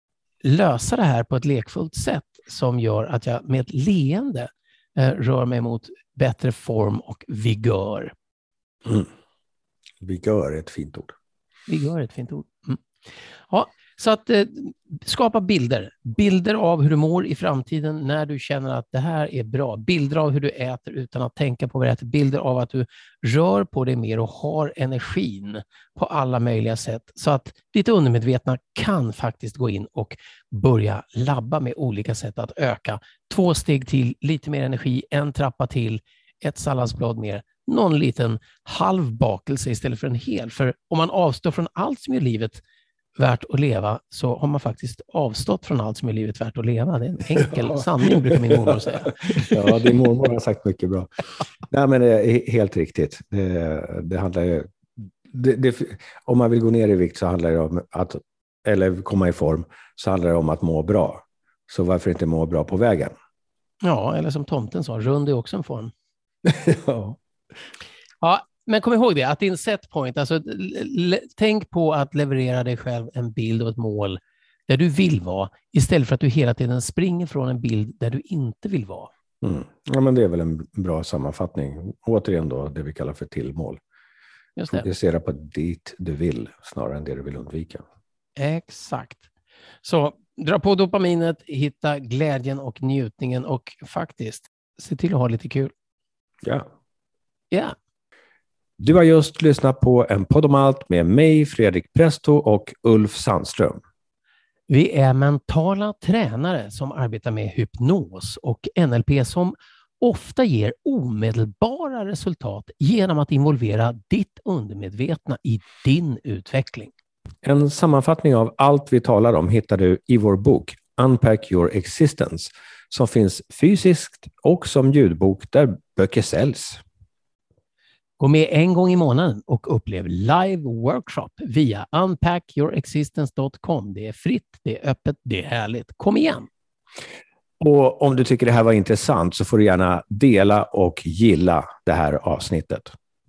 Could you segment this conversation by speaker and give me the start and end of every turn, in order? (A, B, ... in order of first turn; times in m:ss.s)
0:00.4-0:08.1 A
0:10.0-0:11.2 B
0:11.7-0:12.8 A
0:13.5-0:42.6 A
0:43.2-0:49.8 A
0:49.2-0:51.1 B
0:51.7-0:54.7 B
0:55.3-1:03.1 B
1:03.8-1:05.9 A
1:06.4-1:07.2 B
1:08.2-1:19.1 A
1:19.4-1:23.8 B
1:24.6-1:24.9 A
1:24.7-1:27.8 B
1:28.4-1:29.3 A
1:29.8-1:35.7 A
1:38.8-1:43.8 B
1:44.7-1:56.9 A
1:57.4-2:06.8 B
2:08.2-2:16.5 A
2:17.6-2:22.9 B